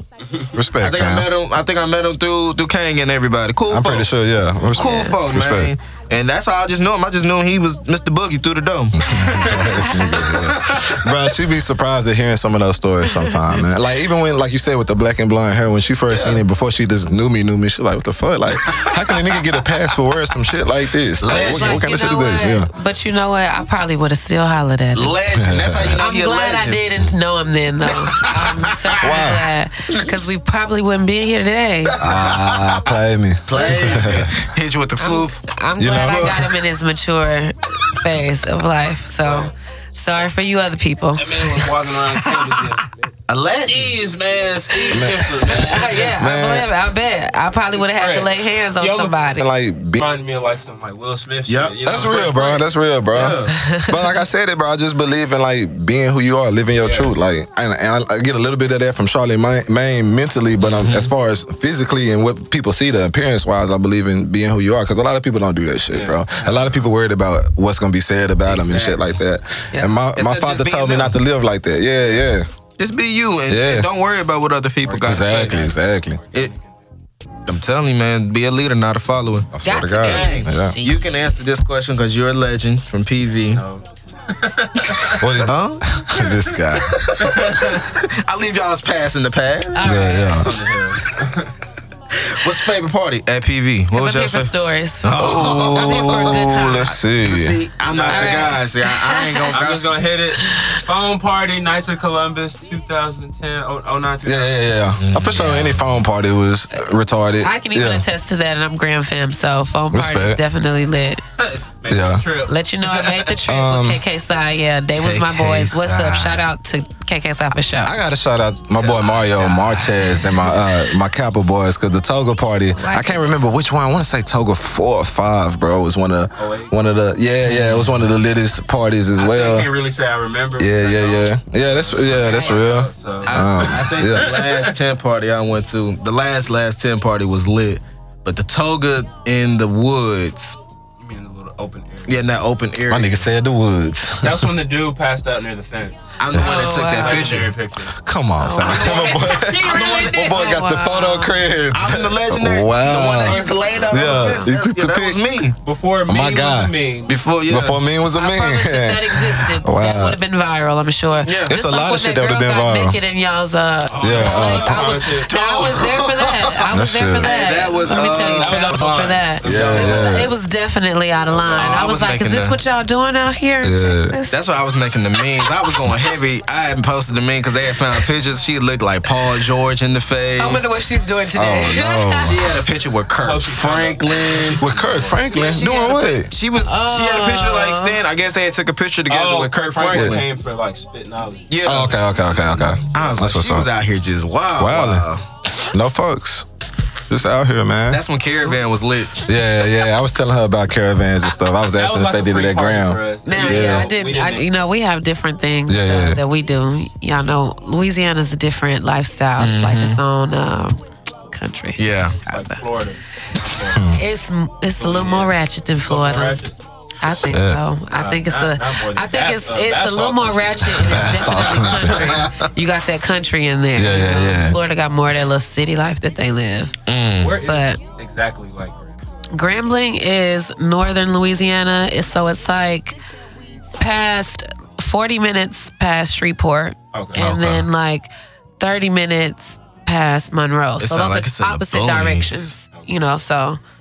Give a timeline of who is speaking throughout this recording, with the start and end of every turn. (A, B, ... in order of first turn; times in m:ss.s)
0:00.2-0:00.5 A
0:00.5-0:01.3 B
0:00.8-0:04.1 C
0:03.7-0:05.7 B
0:04.7-0:11.1 C
0:04.8-0:05.2 D
0:09.0-0:22.7 B
0:09.1-0:10.2 D
0:16.1-0:16.4 C
0:18.7-0:19.4 C
0:21.2-0:21.8 C
0:21.3-0:25.2 D
0:24.9-0:26.8 C
0:25.3-0:26.0 B
0:26.0-0:32.0 D
0:27.9-0:29.3 C
0:29.0-0:29.5 B
0:29.9-0:30.3 C
0:31.9-0:32.9 C
0:32.0-0:34.3 B
0:33.5-0:35.4 C
0:33.7-0:34.4 A
0:35.0-0:42.8 D
0:35.8-0:36.5 B
0:36.0-0:36.5 C
0:39.2-0:39.5 A
0:41.2-0:42.9 A
0:43.3-0:44.0 C
0:43.7-0:46.2 A
0:44.7-0:49.5 D
0:44.9-0:45.4 B
0:46.1-0:46.7 B
0:47.8-0:49.2 A
0:49.4-0:50.1 B
0:50.0-0:52.7 A
0:51.5-0:52.1 C
0:51.8-1:12.5 B
0:53.1-0:53.6 C
0:53.5-0:53.9 D
0:56.8-0:57.1 A
1:00.7-1:01.1 C
1:05.9-1:06.9 A
1:08.4-1:09.2 C
1:10.1-1:11.2 C
1:12.8-1:15.6 C
1:13.5-1:13.9 B
1:14.8-1:16.7 A
1:15.0-1:16.2 B
1:17.5-1:23.6 C
1:19.5-1:20.8 B
1:19.6-1:21.0 D
1:23.5-1:25.2 A
1:25.0-1:30.0 C
1:25.2-1:27.0 B
1:27.2-1:27.9 A
1:29.7-1:30.5 D
1:29.8-1:30.5 B
1:30.4-1:31.5 A
1:32.1-1:40.0 C
1:33.9-1:37.0 D
1:35.2-1:37.6 B
1:37.8-1:38.6 A
1:38.1-1:39.6 D
1:39.5-1:44.8 A
1:40.4-1:40.8 D
1:44.2-1:48.1 B
1:45.0-1:45.9 C
1:47.4-1:51.2 D
1:49.9-1:50.4 B
1:51.4-1:53.4 A
1:51.9-1:52.3 B
1:52.5-1:58.0 D
1:53.4-1:54.0 B
1:54.9-1:56.5 C
1:57.8-2:09.7 B
1:58.7-2:00.5 C
2:02.8-2:03.4 D
2:06.4-2:06.8 A
2:07.4-2:08.1 C
2:09.2-2:14.8 A
2:10.6-2:14.3 B
2:12.2-2:12.6 D
2:13.2-2:20.6 C
2:21.0-2:22.4 A
2:22.1-2:23.3 C
2:22.9-2:24.5 B
2:24.2-2:27.9 A
2:26.2-2:27.5 C
2:26.3-2:27.3 D
2:28.0-2:35.2 B
2:28.4-2:31.4 D
2:28.6-2:30.2 C
2:31.7-2:35.6 C
2:33.6-2:34.5 D
2:35.6-2:37.2 A
2:36.1-2:36.7 B
2:37.1-2:37.8 C
2:37.5-2:40.2 B
2:38.2-2:54.5 D
2:41.2-2:41.6 C
2:41.4-2:43.0 B
2:43.9-2:46.7 C
2:44.0-2:44.8 B
2:44.3-2:45.3 A
2:46.7-2:47.4 B
2:47.2-2:50.1 C
2:47.8-2:50.2 A
2:49.4-2:50.3 B
2:51.3-2:51.8 A
2:51.5-2:52.6 C
2:53.6-2:54.2 B
2:54.3-3:00.7 C
2:55.2-2:56.1 D
3:00.4-3:02.6 D
3:01.3-3:02.5 B
3:02.2-3:04.6 C
3:03.2-3:05.4 A
3:04.6-3:06.3 B
3:05.3-3:10.2 C
3:06.6-3:08.0 D
3:09.1-3:13.2 A
3:09.9-3:10.2 B
3:11.5-3:12.0 C
3:11.6-3:13.7 B
3:12.9-3:15.3 C
3:14.6-3:15.1 B
3:15.7-3:16.5 B
3:17.1-3:18.0 B
3:17.9-3:19.4 C
3:19.3-3:23.9 B
3:21.7-3:24.5 A
3:23.2-3:32.6 D
3:25.7-3:26.2 B
3:29.4-3:30.0 C
3:31.8-3:32.2 C
3:32.2-3:33.9 A
3:33.7-3:34.0 B
3:33.9-3:36.4 D
3:34.8-3:36.7 A
3:37.0-3:46.8 D
3:37.3-3:37.6 B
3:37.9-3:42.2 A
3:40.8-3:42.3 B
3:40.9-3:42.4 C
3:43.8-3:44.6 B
3:46.9-3:47.4 C
3:47.2-3:49.0 A
3:47.4-3:47.8 D
3:49.3-3:53.0 D
3:53.8-4:03.6 D
3:56.9-3:57.3 A
3:57.2-3:57.6 C
3:57.2-3:57.6 B
4:00.8-4:02.5 C